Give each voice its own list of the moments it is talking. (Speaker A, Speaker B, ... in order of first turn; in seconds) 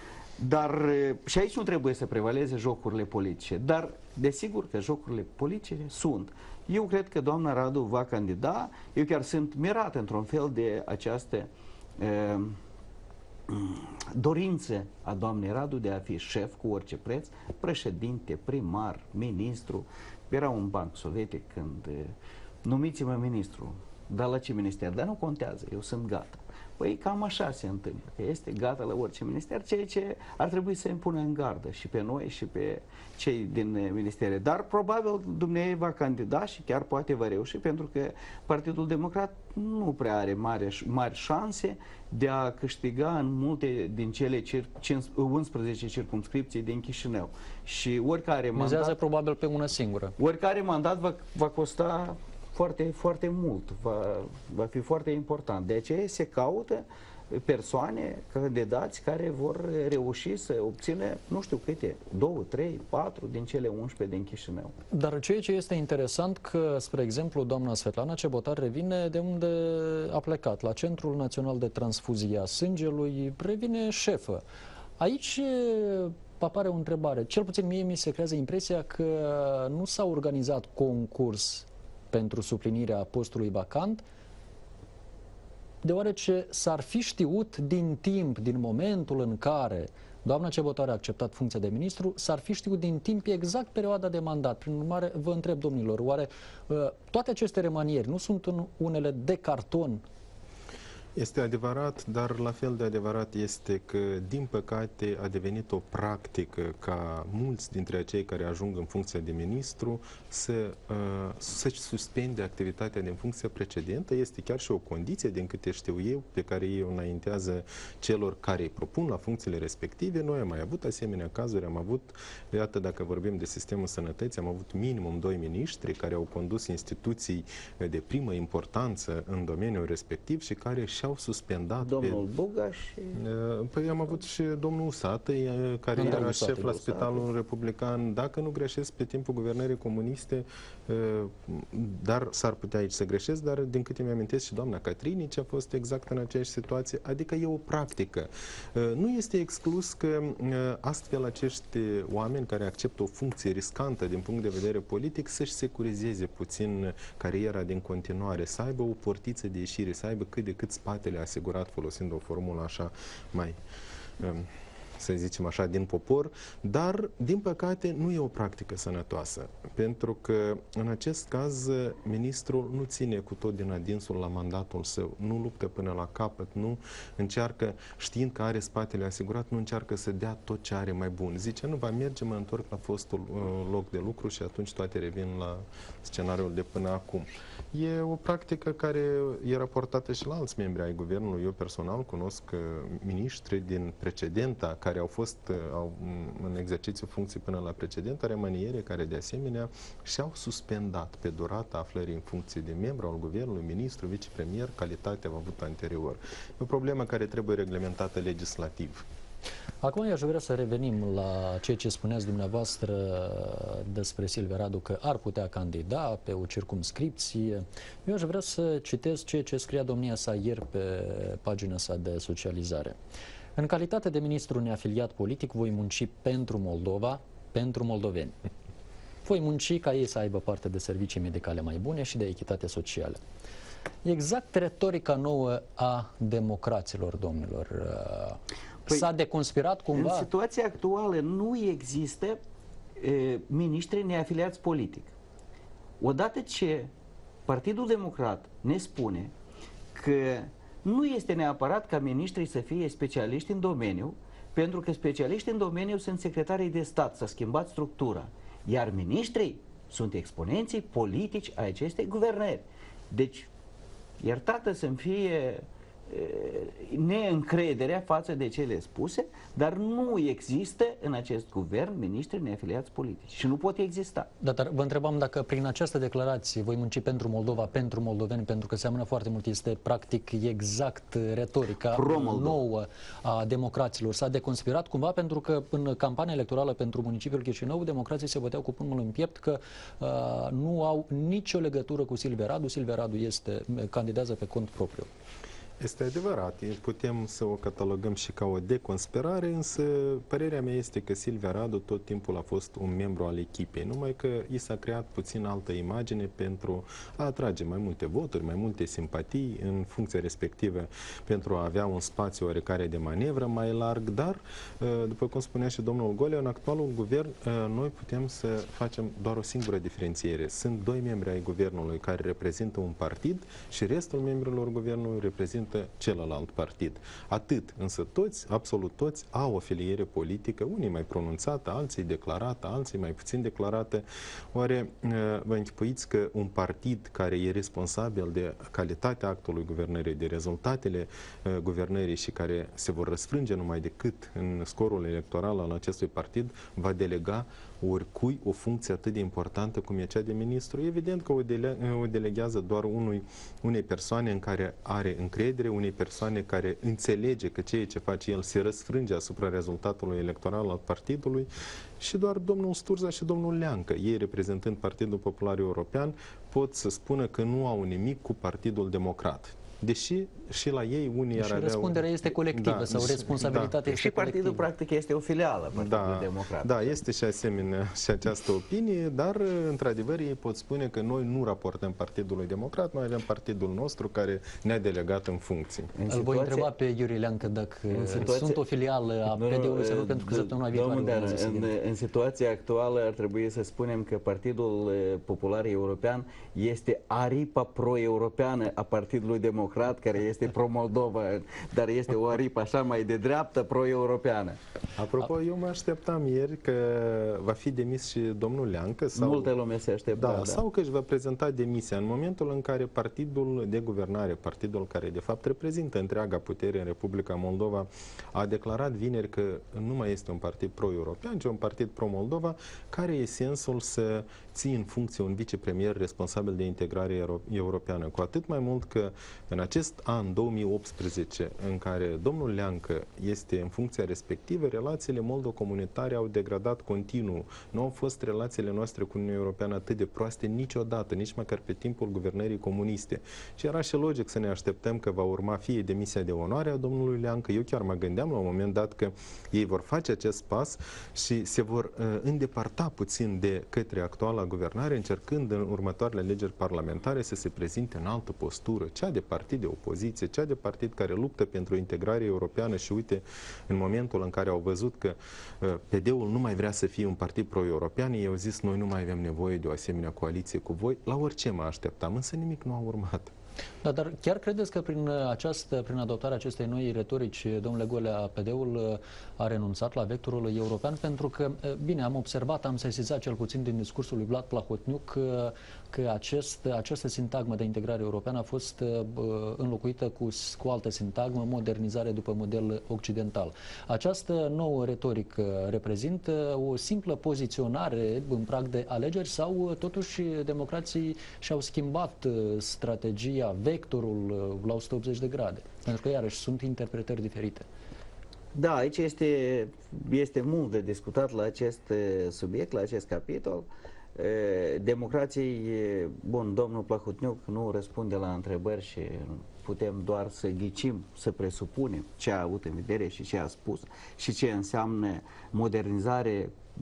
Speaker A: 0.4-12.6, 13.5-22.1, 22.6-49.0, 50.2-64.7, 131.8-133.2, 136.0-137.2, 239.9-242.4, 243.0-245.1, 246.0-246.9, 247.5-249.3, 249.9-263.5, 264.2-274.3, 281.9-282.6, 373.7-377.0, 385.9-386.7, 387.9-388.6, 389.3-404.6, 409.1-410.6, 508.5-526.5
Speaker B: 48.5-50.1, 64.9-74.4, 75.0-84.0, 85.8-100.0, 135.9-137.0, 209.8-222.9, 223.6-228.3, 229.2-233.2, 234.0-240.3, 274.4-295.1, 371.4-374.6, 386.1-391.7, 473.8-507.6
Speaker C: 101.2-132.2, 133.1-163.6, 164.2-209.0, 295.8-373.8, 375.7-385.9, 405.0-409.5, 410.1-473.3